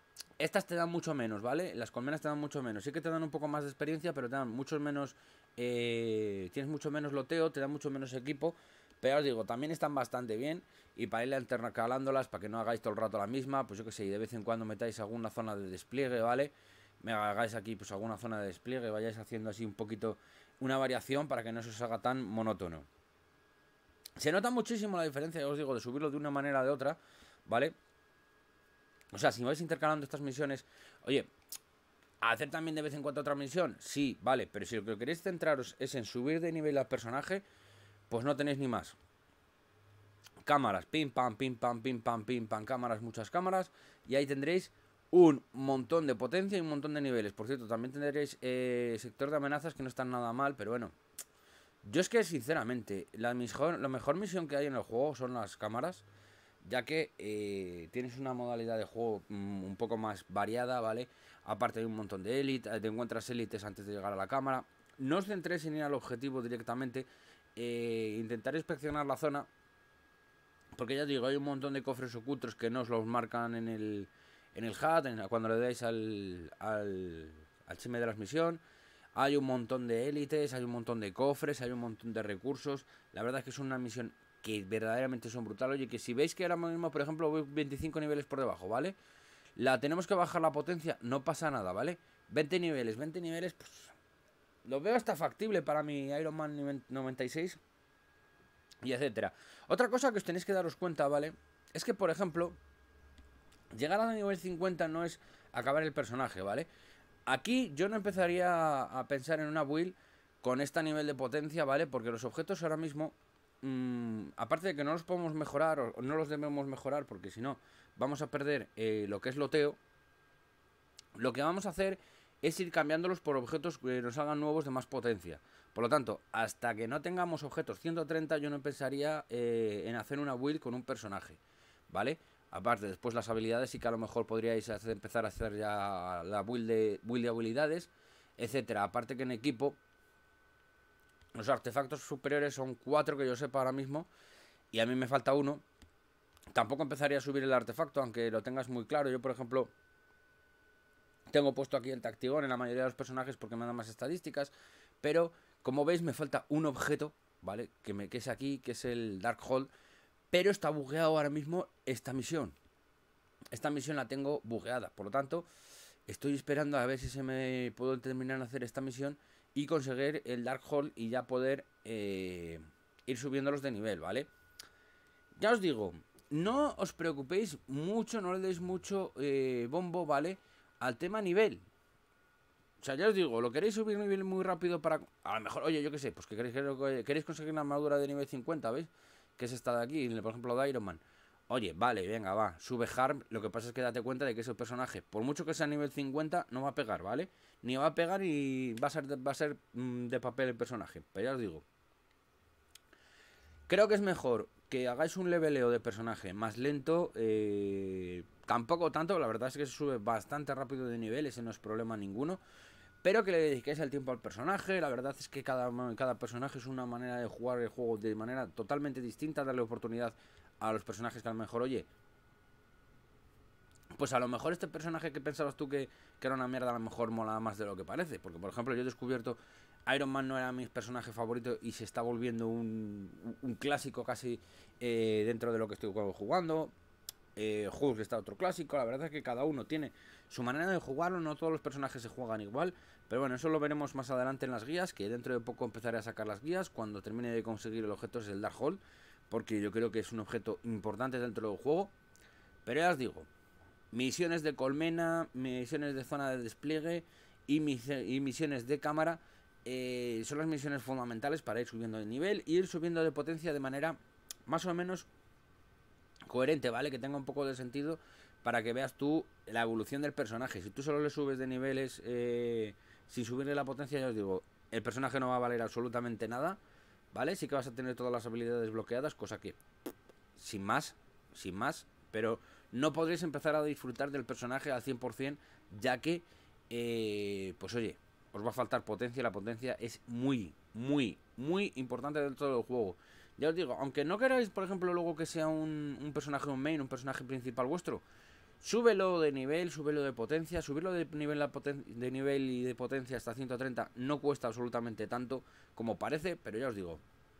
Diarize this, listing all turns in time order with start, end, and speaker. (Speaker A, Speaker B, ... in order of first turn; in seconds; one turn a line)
Speaker A: 0.4-22.9
Speaker A: 24.2-27.7
Speaker A: 29.1-31.3
Speaker A: 32.2-37.4
Speaker A: 38.1-39.0
Speaker A: 40.4-51.0
Speaker A: 51.8-56.0
Speaker A: 56.6-69.5
Speaker A: 70.7-78.6
Speaker A: 79.1-89.0
Speaker A: 89.6-93.9
Speaker A: 94.6-97.6
Speaker A: 98.8-102.6
Speaker A: 103.7-106.7
Speaker A: 107.3-119.8
Speaker A: 121.2-139.8
Speaker A: 141.3-144.1
Speaker A: 144.7-145.6
Speaker A: 146.5-149.7
Speaker A: 151.3-159.7
Speaker A: 160.3-162.6
Speaker A: 163.5-165.5
Speaker A: 166.1-174.3
Speaker A: 175.4-181.7
Speaker A: 182.8-201.6
Speaker A: 203.7-212.4
Speaker A: 213.0-221.9
Speaker A: 223.9-236.7
Speaker A: 237.3-251.9
Speaker A: 252.6-253.3
Speaker A: 253.9-265.1
Speaker A: 266.3-276.6
Speaker A: 277.1-279.6
Speaker A: 280.4-298.0
Speaker A: 298.6-307.0